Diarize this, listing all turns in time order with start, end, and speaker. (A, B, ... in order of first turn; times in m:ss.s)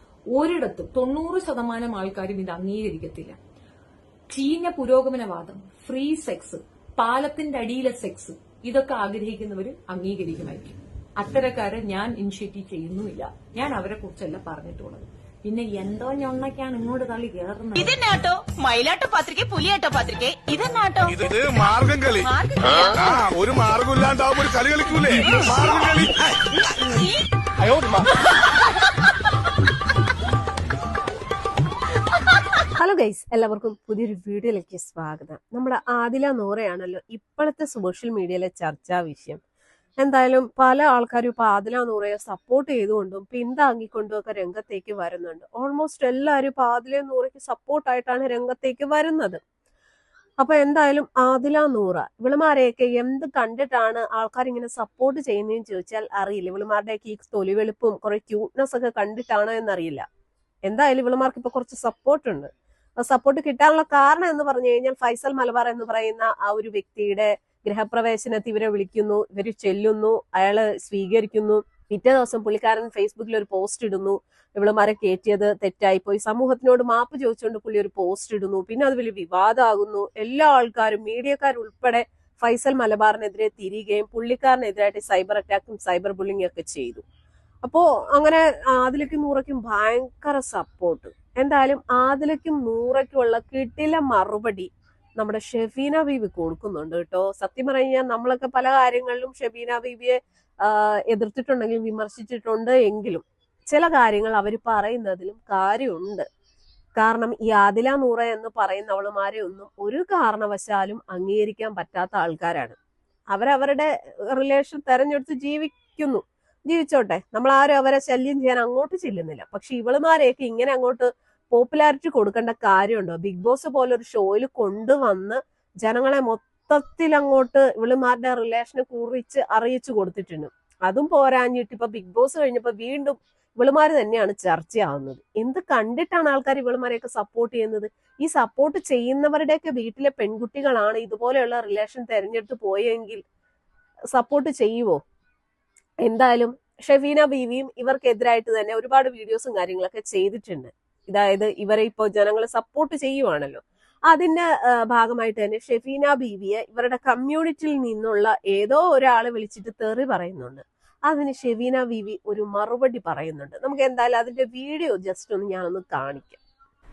0:00.3-0:03.4 A
0:04.3-0:18.0 A
0:17.8-0:21.2 B
0:21.1-0:26.3 C
0:22.2-0:23.1 A
0:25.2-0:26.0 B
0:26.8-0:27.2 B
0:27.6-0:28.1 C
0:32.7-0:39.4 D
0:40.0-0:49.4 D
0:50.4-1:00.0 D
1:00.7-1:27.0 D
1:27.6-1:46.3 D
1:47.0-1:52.8 D
1:53.3-2:23.2 D
2:24.1-2:25.0 D
2:26.0-2:46.4 D